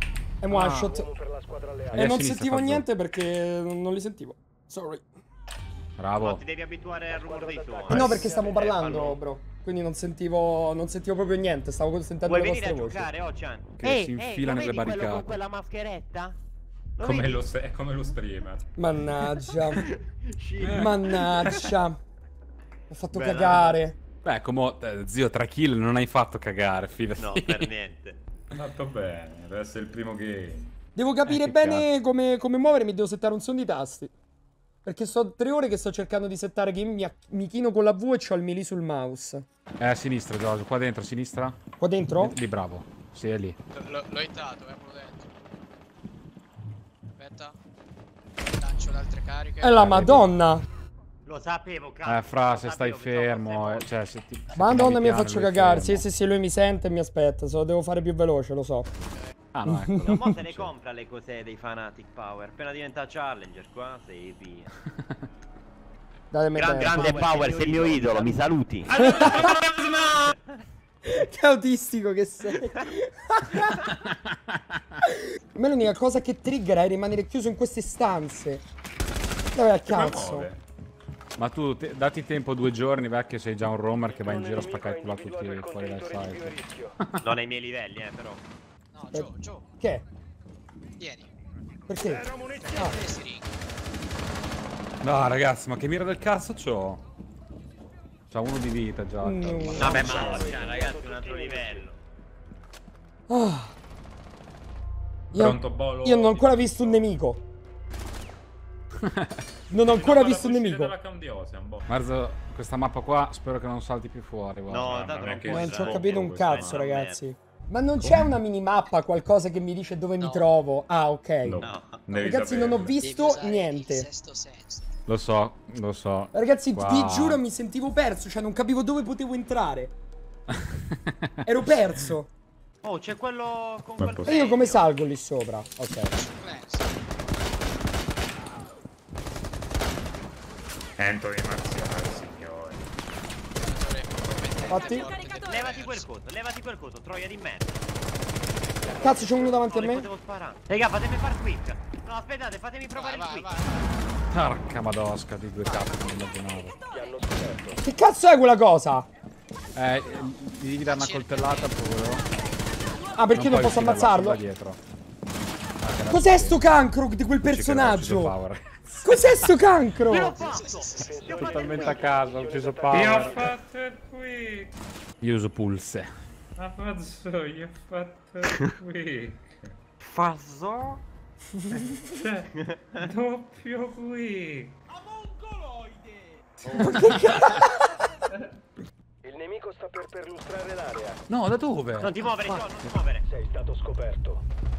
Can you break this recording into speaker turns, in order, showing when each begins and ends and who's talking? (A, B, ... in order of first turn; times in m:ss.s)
0:00.4-0:01.1 A
0:00.5-0:00.8 B
0:00.7-0:02.0 C
0:01.9-0:02.8 B
0:01.9-0:05.0 A
0:06.0-0:06.4 B
0:06.2-0:09.2 D
0:07.1-0:09.1 C
0:07.9-0:13.1 A
0:12.2-0:16.4 D
0:13.8-0:15.4 B
0:17.0-0:17.4 D
0:17.0-0:19.1 E
0:18.8-0:19.9 A
0:19.7-0:21.6 D
0:20.7-0:22.0 A
0:22.9-0:24.0 A
0:23.1-0:23.8 D
0:24.2-0:27.7 B
0:27.2-0:28.2 D
0:28.5-0:30.7 E
0:30.9-0:34.1 A
0:31.2-0:31.9 B
0:34.8-0:39.4 A
0:39.8-0:41.6 B
0:41.8-0:42.4 A
0:42.2-0:43.6 B
0:43.7-0:45.3 F
0:47.2-0:47.6 F
0:48.5-0:49.8 F
0:49.6-0:50.6 A
0:49.8-0:50.3 B
0:51.2-0:53.9 D
0:52.0-0:56.0 B
0:54.5-0:58.9 A
0:59.5-1:00.7 B
0:59.7-1:00.1 A
1:00.1-1:04.7 D
1:06.3-1:07.3 A
1:06.5-1:10.4 D
1:08.9-1:10.1 E
1:09.0-1:09.6 A
1:11.0-1:14.0 A
1:13.8-1:14.8 B
1:15.5-1:18.6 A
1:19.5-1:20.5 A
1:19.8-1:20.6 E
1:21.4-1:27.4 B
1:24.1-1:26.9 C
1:27.2-1:28.4 D
1:28.9-1:29.6 F
1:31.0-1:31.3 F
1:31.9-1:33.0 A
1:32.3-1:32.8 C
1:32.6-1:33.5 F
1:35.0-1:37.0 B
1:38.3-1:40.6 B
1:39.2-1:40.6 A
1:39.8-1:42.0 D
1:39.9-1:41.8 C
1:43.3-1:43.7 A
1:45.3-1:47.0 E
1:45.3-1:47.4 A
1:49.0-1:49.4 B
1:49.7-1:50.9 A
1:49.8-1:51.9 E
1:51.9-1:54.9 B
1:54.7-1:57.2 D
1:54.8-1:56.8 E
1:55.4-2:04.1 A
1:58.0-1:58.4 E
2:00.2-2:00.5 F
2:01.4-2:03.0 E
2:01.6-2:02.1 D
2:03.0-2:04.9 F
2:05.1-2:07.4 B
2:06.3-2:09.9 A
2:10.5-2:11.8 B
2:11.4-2:12.3 A
2:12.8-2:14.9 D
2:14.0-2:14.4 E
2:14.2-2:16.2 A
2:16.1-2:16.9 F
2:21.0-2:22.9 E
2:23.6-2:26.1 F
2:24.7-2:25.1 A
2:25.2-2:27.8 D
2:28.8-2:29.6 C
2:29.0-2:30.1 A
2:29.5-2:33.5 D
2:32.9-2:34.0 F
2:34.3-2:36.8 B
2:36.9-2:37.8 C
2:37.8-2:39.1 A
2:39.7-2:42.2 B
2:40.8-2:41.8 F
2:43.1-2:44.4 A
2:43.3-2:44.8 B
2:45.8-2:46.6 B
2:46.1-2:48.4 A
2:47.4-2:49.5 B
2:49.0-2:50.5 A
2:50.0-2:51.9 D
2:50.3-2:51.2 F
2:50.9-2:53.6 C
2:51.2-2:53.5 B
2:52.9-2:54.7 E
2:55.2-2:56.1 B
2:56.6-2:59.4 E
3:00.0-3:01.0 D
3:01.6-3:01.9 A
3:01.8-3:04.8 E
3:02.6-3:03.0 D
3:06.7-3:08.1 A
3:06.8-3:07.2 B
3:09.2-3:11.2 C
3:11.3-3:13.0 B
3:12.0-3:13.2 D
3:13.3-3:14.4 C